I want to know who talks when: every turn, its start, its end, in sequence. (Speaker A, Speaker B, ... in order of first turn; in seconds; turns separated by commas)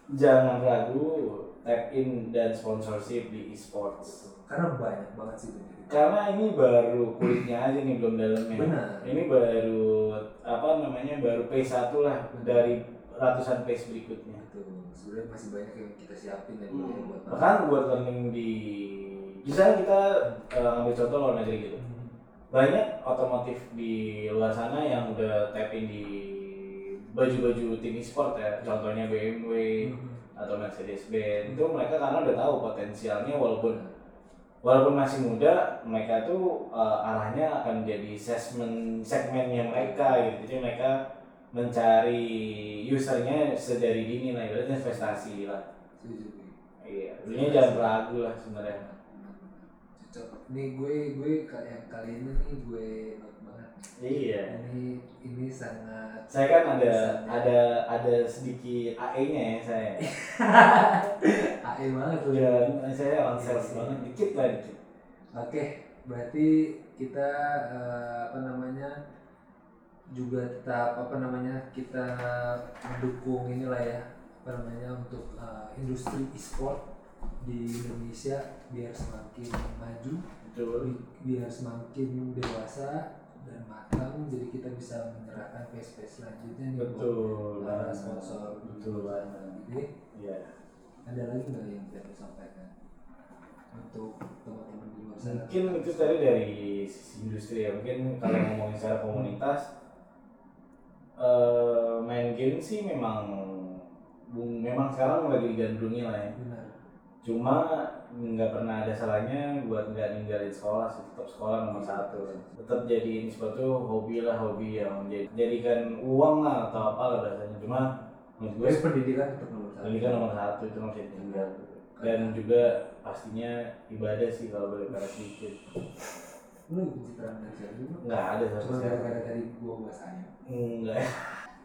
Speaker A: 0.1-4.2, Speaker B: 4.0-6.1, Speaker A: 5.9-14.4, Speaker B: 8.5-9.1, Speaker B: 12.3-12.7, Speaker B: 14.4-17.6, Speaker A: 16.7-21.8, Speaker B: 21.8-22.2, Speaker A: 22.5-33.8, Speaker B: 29.8-30.2, Speaker A: 34.6-41.0, Speaker B: 39.6-40.3, Speaker A: 41.5-45.6, Speaker B: 46.0-46.5, Speaker A: 46.8-48.8, Speaker B: 47.2-48.0, Speaker B: 48.6-57.5, Speaker A: 54.0-54.6, Speaker A: 56.3-60.1, Speaker B: 60.0-62.7, Speaker A: 62.2-64.8, Speaker B: 63.3-64.5, Speaker B: 65.3-69.0, Speaker B: 70.1-76.8, Speaker B: 77.4-80.2, Speaker A: 80.4-80.9, Speaker B: 80.8-89.9, Speaker A: 86.8-89.6, Speaker A: 90.1-90.5, Speaker B: 91.0-92.7, Speaker B: 93.7-96.2, Speaker A: 95.2-99.7, Speaker A: 101.2-106.3, Speaker B: 106.3-106.8, Speaker A: 107.2-118.8, Speaker B: 111.7-112.6, Speaker B: 118.6-120.3, Speaker A: 119.8-125.6, Speaker B: 121.1-122.4, Speaker B: 126.7-128.0, Speaker A: 128.0-129.2, Speaker B: 128.6-130.3, Speaker A: 130.4-131.4